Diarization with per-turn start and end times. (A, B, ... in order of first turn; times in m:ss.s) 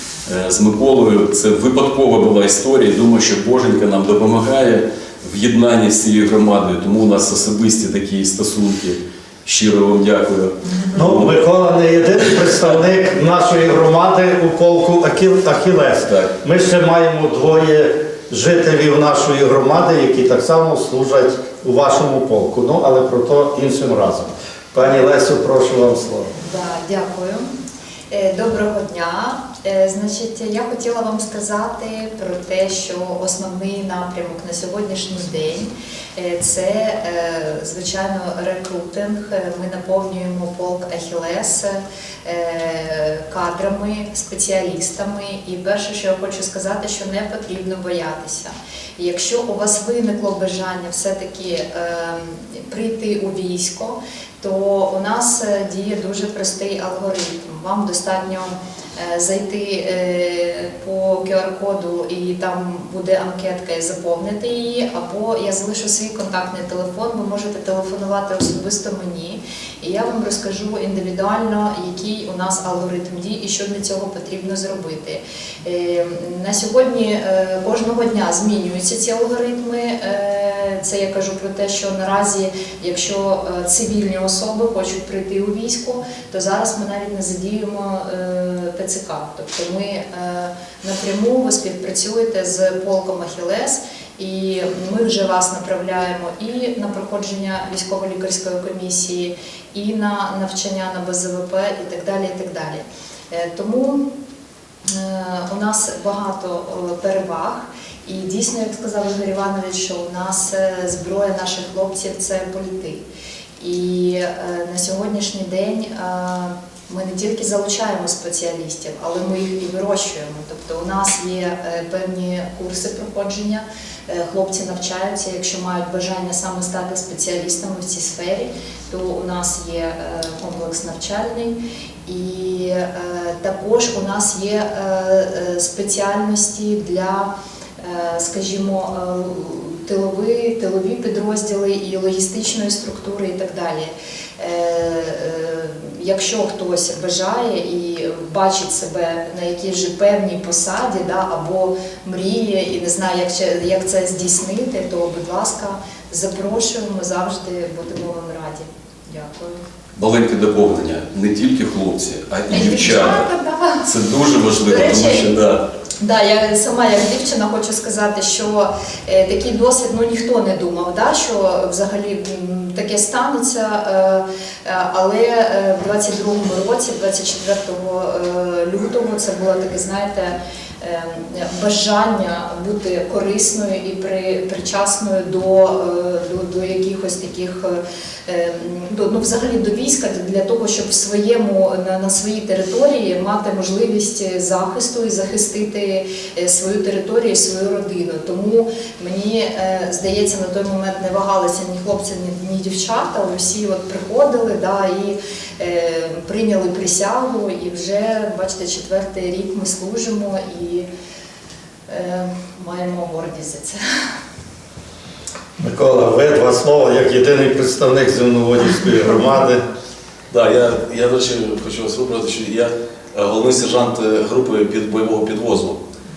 0:00.3-0:11.4 A
0:10.9-0:26.3 B
0:16.0-0:16.3 A
0:26.4-0:27.5 C
0:28.1-1:44.0 C
1:44.9-1:53.0 C
1:53.6-2:39.6 C
2:40.0-2:43.3 A
2:42.5-2:43.9 C
2:43.8-2:45.7 A
2:44.6-2:45.3 C
2:46.0-3:30.9 C
3:31.9-3:33.8 C
3:35.6-3:39.6 B
3:40.3-3:45.8 D